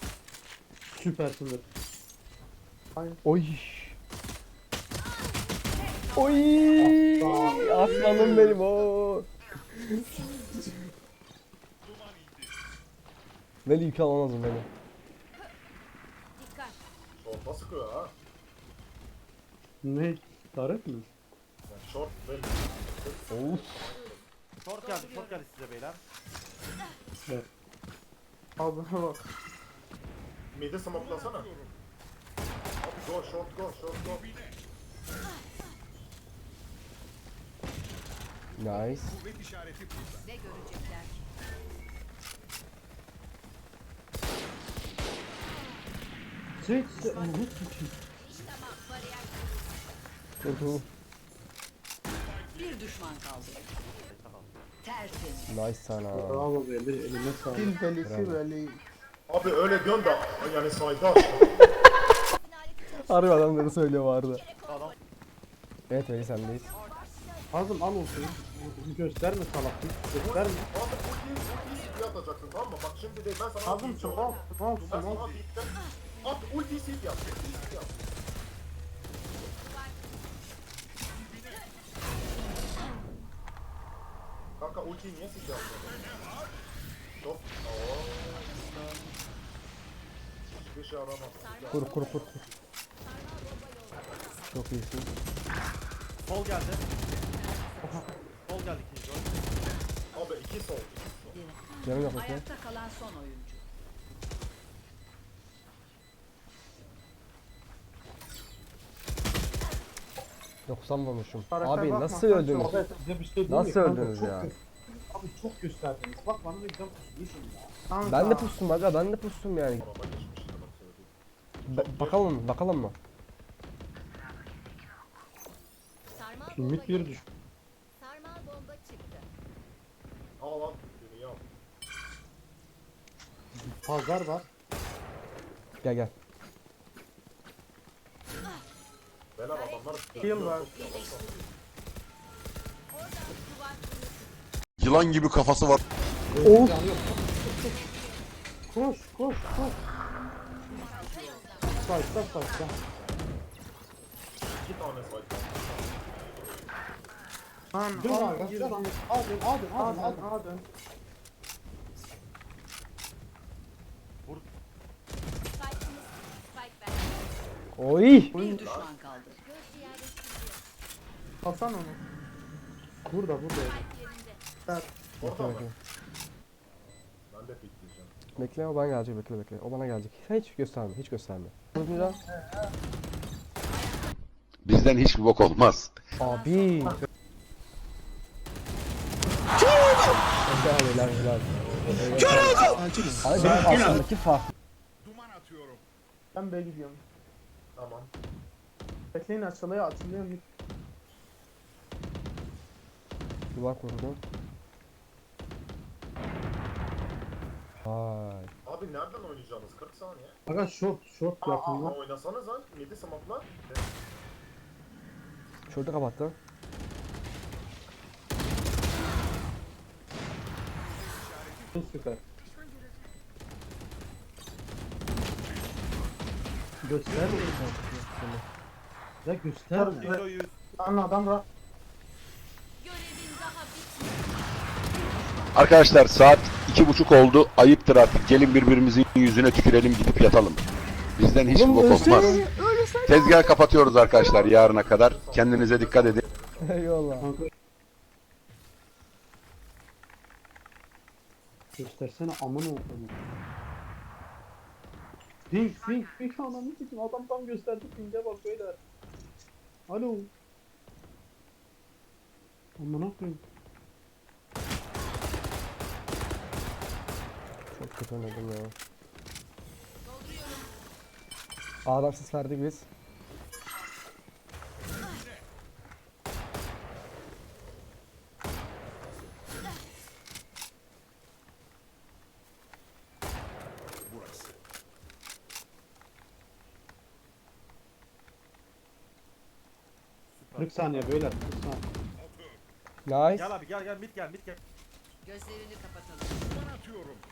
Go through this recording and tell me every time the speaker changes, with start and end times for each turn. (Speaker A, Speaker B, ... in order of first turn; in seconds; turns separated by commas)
Speaker A: 0.9-1.6, Speaker B: 3.2-4.0, Speaker C: 5.0-6.6, Speaker B: 6.1-10.2, Speaker A: 6.7-8.6, Speaker B: 13.7-14.7, Speaker C: 16.4-16.8, Speaker D: 17.1-18.1, Speaker A: 19.8-21.1, Speaker D: 21.7-24.2, Speaker B: 23.3-23.7, Speaker C: 23.9-24.2, Speaker E: 24.6-26.0, Speaker C: 24.8-25.3, Speaker F: 28.6-29.2, Speaker D: 30.5-31.5, Speaker D: 32.8-34.2, Speaker B: 38.6-39.2, Speaker G: 40.2-41.2, Speaker A: 46.6-47.9, Speaker G: 47.0-47.4, Speaker G: 48.2-49.5, Speaker B: 50.4-50.9, Speaker G: 52.5-53.7, Speaker E: 54.0-54.5, Speaker G: 54.8-55.5, Speaker B: 55.5-56.5, Speaker A: 56.1-57.7, Speaker F: 57.5-58.8, Speaker B: 58.0-58.4, Speaker D: 59.3-61.8, Speaker C: 62.4-63.6, Speaker B: 62.9-64.4, Speaker C: 64.4-64.9, Speaker E: 64.7-65.0, Speaker B: 65.9-66.7, Speaker C: 66.7-67.5, Speaker A: 67.5-70.7, Speaker D: 70.2-75.7, Speaker C: 71.5-72.0, Speaker F: 73.6-75.3, Speaker D: 76.2-78.1, Speaker C: 79.6-80.0, Speaker D: 84.6-86.1, Speaker D: 87.2-88.7, Speaker D: 90.5-92.3, Speaker C: 91.3-92.4, Speaker B: 91.7-92.4, Speaker C: 93.0-94.3, Speaker B: 94.5-95.1, Speaker E: 96.2-96.9, Speaker C: 97.3-98.2, Speaker F: 97.8-98.1, Speaker E: 98.4-99.5, Speaker D: 100.1-101.5, Speaker C: 101.3-102.0, Speaker B: 101.8-102.5, Speaker G: 102.0-103.6, Speaker B: 110.7-112.8, Speaker F: 111.5-112.8, Speaker A: 112.5-117.7, Speaker B: 113.5-114.5, Speaker F: 117.9-118.6, Speaker B: 118.0-119.8, Speaker D: 119.8-121.1, Speaker B: 121.7-122.9, Speaker D: 121.7-122.3, Speaker C: 126.1-127.2, Speaker A: 126.5-127.2, Speaker C: 128.0-129.2, Speaker D: 130.4-131.5, Speaker A: 133.6-134.5, Speaker B: 135.8-136.1, Speaker D: 139.3-141.4, Speaker C: 139.5-140.2, Speaker G: 140.1-140.9, Speaker F: 140.2-140.8, Speaker C: 140.7-141.4, Speaker C: 142.9-144.3, Speaker H: 144.8-145.8, Speaker A: 146.3-147.8, Speaker B: 146.4-146.8, Speaker C: 147.6-148.2, Speaker A: 148.7-149.8, Speaker C: 150.9-152.4, Speaker A: 151.8-152.8, Speaker D: 154.5-156.5, Speaker F: 157.7-158.9, Speaker A: 158.0-160.3, Speaker F: 159.7-160.6, Speaker C: 165.5-167.2, Speaker B: 167.8-168.3, Speaker F: 168.3-168.6, Speaker G: 168.4-169.4, Speaker D: 168.5-168.9, Speaker C: 169.4-170.6, Speaker F: 171.4-172.0, Speaker A: 173.1-173.8, Speaker C: 173.6-174.4, Speaker D: 175.2-175.7, Speaker B: 175.2-175.7, Speaker D: 177.3-178.2, Speaker B: 178.3-182.2, Speaker F: 181.8-182.2, Speaker A: 182.4-182.7, Speaker H: 184.6-186.1, Speaker B: 186.2-187.0, Speaker B: 190.4-194.5, Speaker D: 191.5-192.0, Speaker A: 191.9-192.8, Speaker F: 192.3-192.7, Speaker A: 193.4-193.9, Speaker H: 193.4-193.8, Speaker F: 196.3-197.0, Speaker D: 197.8-198.1, Speaker F: 199.1-200.4, Speaker B: 203.5-204.2, Speaker B: 207.8-208.5, Speaker D: 208.6-210.4, Speaker A: 210.5-212.0, Speaker D: 211.4-213.9, Speaker B: 215.7-216.3, Speaker F: 221.7-222.2, Speaker A: 226.8-227.7, Speaker B: 227.1-228.4, Speaker A: 229.2-230.1, Speaker F: 229.7-230.2, Speaker E: 230.0-230.5, Speaker F: 230.8-231.4, Speaker G: 232.8-234.1, Speaker C: 232.9-233.4, Speaker G: 234.9-235.6, Speaker H: 235.5-240.6, Speaker H: 241.2-242.5, Speaker B: 241.5-243.6, Speaker H: 243.0-246.2, Speaker D: 243.9-246.9, Speaker B: 246.6-247.3, Speaker A: 247.2-247.5, Speaker A: 251.8-253.2, Speaker A: 255.5-258.8, Speaker A: 259.9-260.3, Speaker A: 262.8-263.4, Speaker B: 267.7-268.7, Speaker G: 270.1-270.6, Speaker B: 271.9-272.9, Speaker E: 290.3-291.2, Speaker A: 290.6-291.8, Speaker B: 293.1-293.5, Speaker E: 293.3-294.6, Speaker G: 295.3-296.3